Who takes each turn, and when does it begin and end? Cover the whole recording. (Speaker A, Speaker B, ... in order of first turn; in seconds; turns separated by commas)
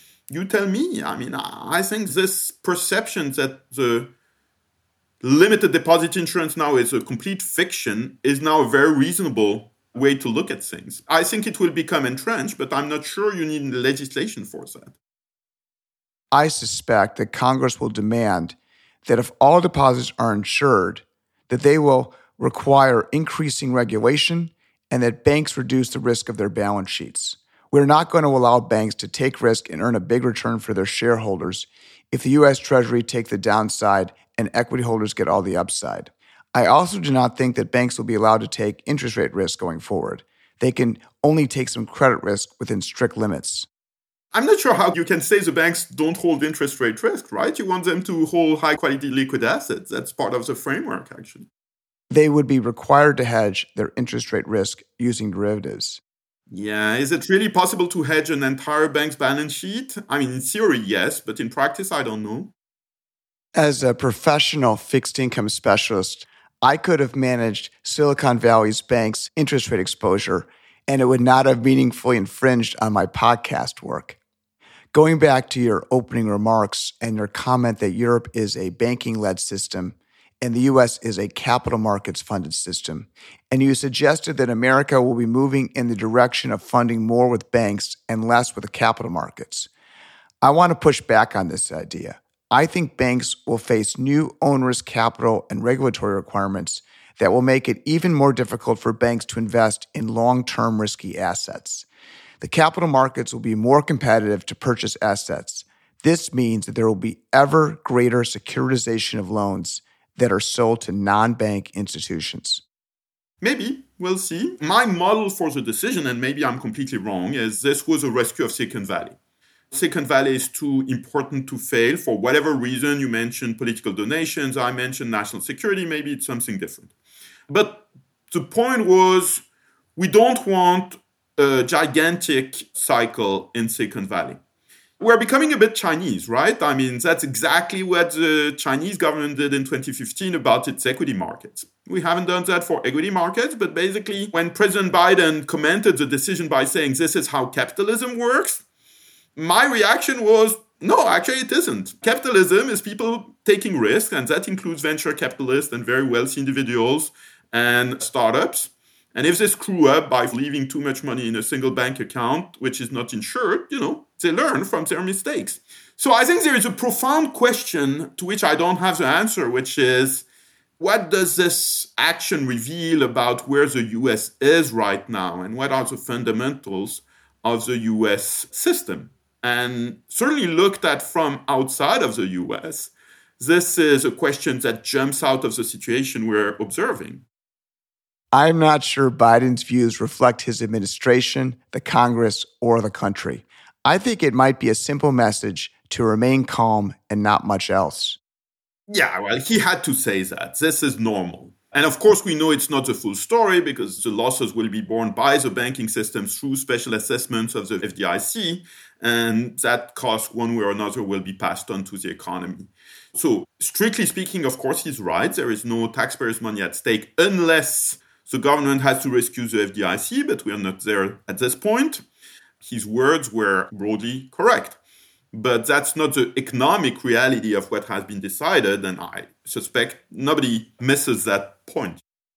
Speaker A: 0.3-4.1, Speaker A: 5.2-14.9, Speaker B: 16.3-43.7, Speaker A: 44.3-51.5, Speaker B: 52.1-56.0, Speaker A: 56.5-62.5, Speaker B: 63.5-74.2, Speaker B: 74.9-89.7, Speaker B: 90.4-101.9, Speaker B: 102.4-112.6, Speaker A: 113.4-119.2, Speaker A: 119.7-126.9, Speaker A: 127.5-129.4, Speaker A: 130.0-134.4, Speaker A: 135.0-148.6, Speaker A: 149.4-170.3, Speaker A: 170.8-187.2, Speaker B: 188.3-198.2, Speaker A: 198.9-222.0, Speaker A: 222.6-224.8, Speaker A: 225.3-232.0